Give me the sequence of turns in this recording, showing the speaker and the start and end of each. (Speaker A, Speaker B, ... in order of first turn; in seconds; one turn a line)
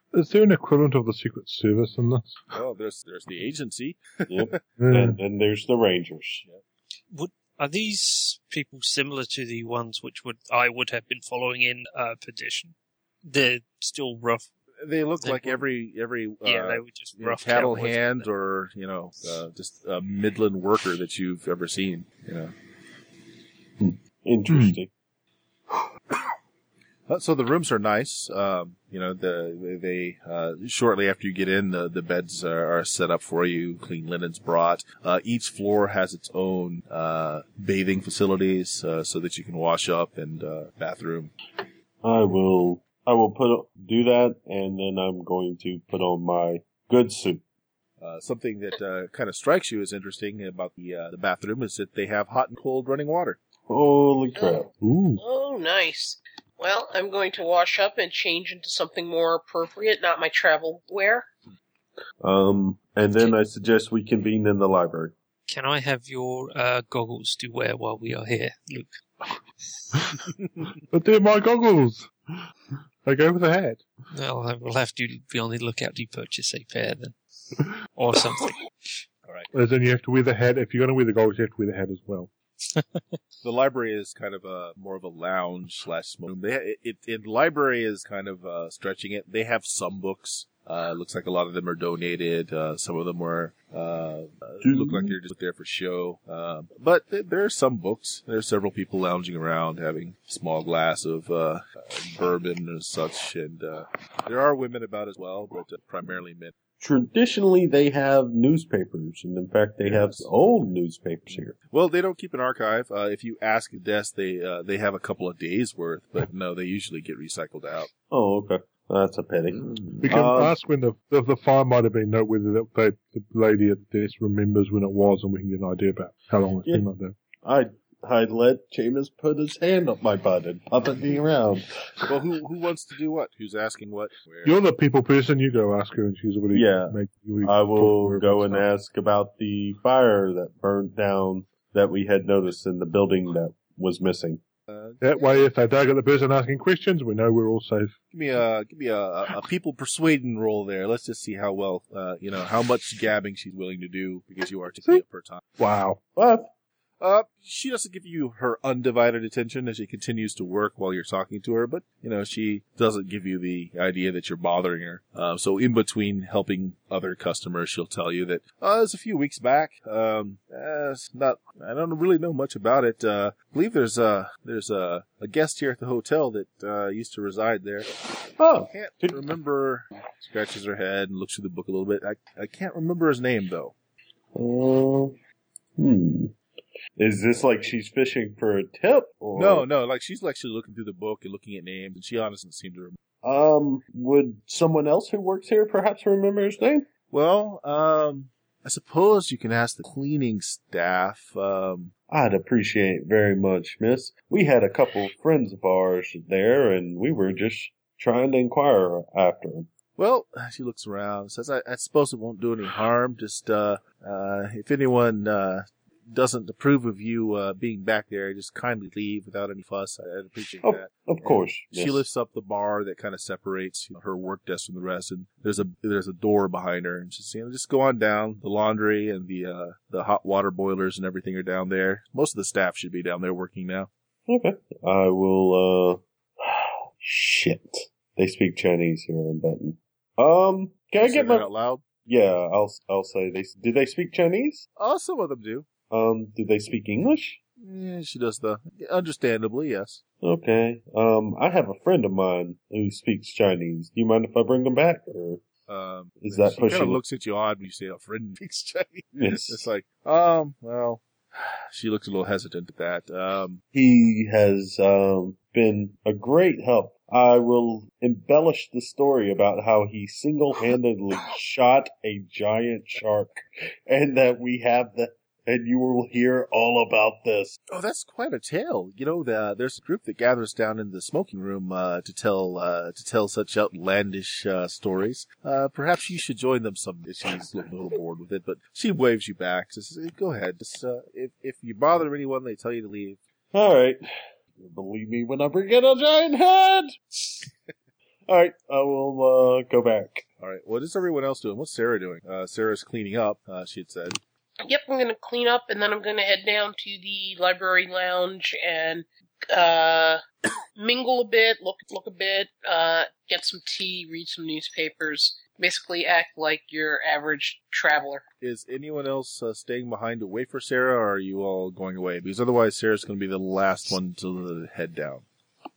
Speaker A: 0.1-2.4
Speaker B: 2.5-4.6
Speaker C: 4.3-6.5
Speaker A: 4.8-5.2
Speaker D: 7.1-12.7
Speaker D: 13.2-14.5
Speaker B: 14.8-22.5
Speaker D: 15.2-15.6
Speaker D: 16.4-18.3
Speaker C: 23.8-24.9
Speaker B: 27.1-41.3
Speaker C: 42.0-47.4
Speaker B: 48.0-53.4
Speaker C: 53.7-54.7
Speaker E: 54.4-61.3
Speaker A: 54.8-55.2
Speaker C: 62.2-65.1
Speaker D: 65.5-68.9
Speaker A: 70.9-72.1
Speaker A: 73.0-73.8
Speaker D: 74.1-77.2
Speaker D: 78.0-78.6
Speaker B: 79.2-79.5
Speaker A: 79.5-82.3
Speaker D: 82.7-83.2
Speaker B: 83.4-106.5
Speaker C: 94.6-95.2
Speaker C: 106.8-111.6
Speaker B: 109.8-110.3
Speaker B: 111.6-117.9
Speaker C: 118.1-120.6
Speaker A: 120.0-127.2
Speaker C: 127.4-132.1
Speaker B: 132.1-134.6
Speaker A: 134.4-138.7
Speaker C: 136.5-144.4
Speaker B: 144.7-145.5
Speaker A: 145.0-147.9
Speaker B: 148.1-155.4
Speaker A: 155.6-156.0
Speaker C: 156.2-156.5
Speaker B: 157.0-177.9
Speaker C: 178.4-179.2
Speaker B: 178.7-183.7
Speaker C: 184.3-185.2
Speaker C: 185.8-186.4
Speaker C: 187.0-189.7
Speaker B: 189.3-193.0
Speaker C: 193.2-196.9
Speaker B: 197.1-201.9
Speaker C: 202.1-209.7
Speaker B: 210.0-233.9
Speaker C: 220.6-222.0
Speaker C: 234.3-241.5
Speaker B: 241.0-241.9
Speaker C: 242.0-244.7
Speaker B: 244.8-245.7
Speaker C: 245.9-247.4
Speaker B: 247.6-250.0
Speaker C: 250.2-255.4
Speaker B: 255.7-263.6
Speaker C: 256.2-257.0
Speaker C: 259.1-259.6
Speaker C: 263.7-277.6
Speaker B: 277.7-293.2
Speaker C: 293.5-294.0
Speaker C: 294.6-297.0
Speaker C: 298.3-300.2
Speaker B: 300.4-304.2
Speaker E: 304.6-310.2
Speaker E: 310.8-318.2
Speaker B: 318.4-325.2